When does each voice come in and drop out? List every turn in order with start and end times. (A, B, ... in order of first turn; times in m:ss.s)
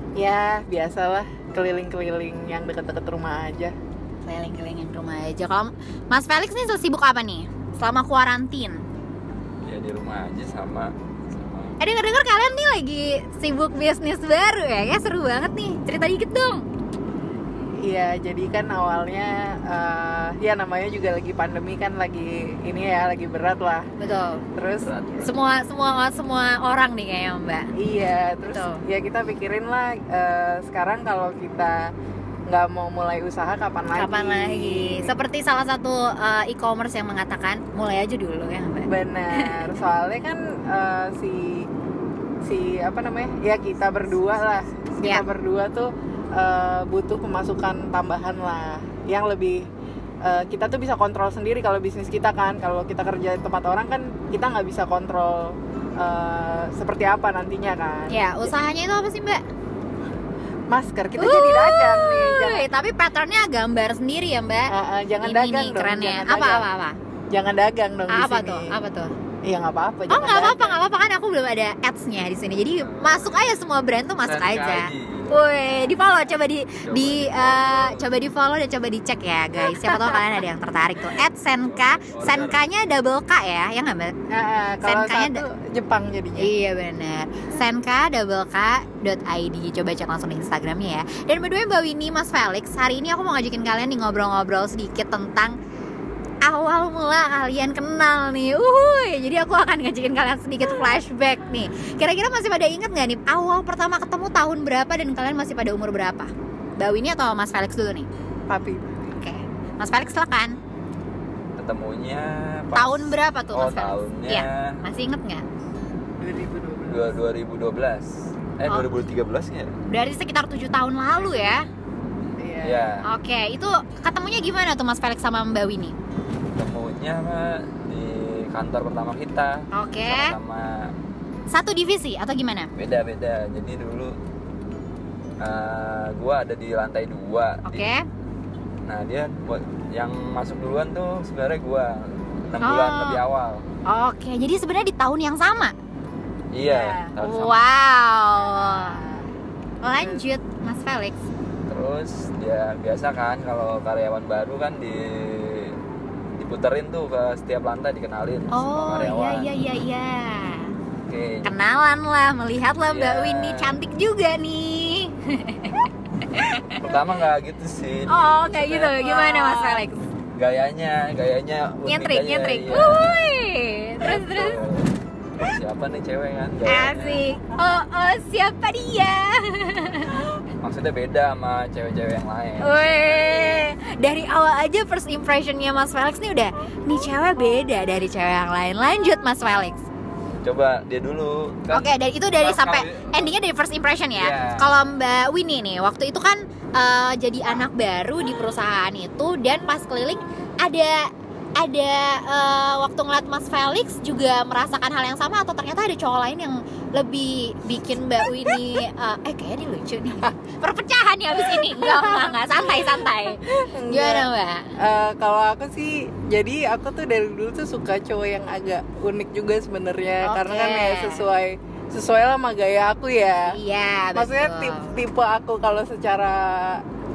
0:00.2-0:03.7 A
0:04.2-0:08.8 B
0:09.6-0:11.8 C
0:11.8-0:16.6 B
0:17.8-0:23.9 A
0:24.0-0:24.4 B
0:24.6-0:24.9 A
0:24.8-0:25.3 C
0:25.2-0:27.7 B
0:27.7-0:31.9 A
0:28.5-0:28.8 B
0:32.5-0:35.1 A
0:34.0-0:39.6 B
0:38.8-0:41.7 A
0:42.4-0:49.7 A
0:50.2-0:58.5 A
0:58.1-0:59.4 B
1:00.7-1:02.7 A
1:01.2-1:07.0 B
1:04.7-1:06.6 A
1:07.3-1:08.7 A
1:08.1-1:09.1 B
1:09.4-1:10.8 A
1:10.1-1:24.1 B
1:12.7-1:13.7 C
1:14.2-1:16.0 C
1:16.8-1:18.1 C
1:19.7-1:20.2 A
1:21.6-1:22.6 C
1:24.3-1:26.5 A
1:24.8-1:25.4 B
1:26.4-1:35.6 B
1:36.4-1:48.1 B
1:48.5-1:49.0 A
1:49.2-1:50.6 B
1:51.6-1:54.8 C
1:52.7-1:55.4 B
1:56.2-1:57.1 A
1:56.9-1:59.8 C
1:59.9-2:01.7 B
2:02.4-2:02.9 A
2:02.6-2:03.0 C
2:03.0-2:06.0 B
2:06.6-2:10.9 C
2:09.7-2:10.3 B
2:11.5-2:12.7 B
2:12.8-2:14.2 C
2:15.4-2:17.9 C
2:17.6-2:18.0 B
2:18.8-2:23.6 C
2:22.6-2:23.2 B
2:23.8-2:25.7 B
2:26.5-2:27.6 C
2:26.7-2:27.1 A
2:27.2-2:29.0 B
2:28.4-2:29.3 A
2:29.8-2:31.2 B
2:30.0-2:30.2 A
2:31.7-2:35.8 C
2:36.4-2:39.5 C
2:38.5-2:40.7 B
2:41.1-2:41.6 C
2:41.4-2:46.8 B
2:42.9-2:43.8 C
2:46.7-2:49.2 C
2:48.1-2:50.0 B
2:49.0-2:49.8 A
2:50.4-2:53.3 C
2:51.8-2:54.6 B
2:54.0-2:57.3 C
2:56.6-3:00.2 B
3:00.6-3:03.7 C
3:02.6-3:09.8 B
3:10.4-3:13.3 C
3:11.7-3:34.7 B
3:14.2-3:14.8 C
3:31.4-3:43.6 A
3:40.2-3:41.2 B
3:43.5-3:45.0 B
3:44.1-3:46.8 A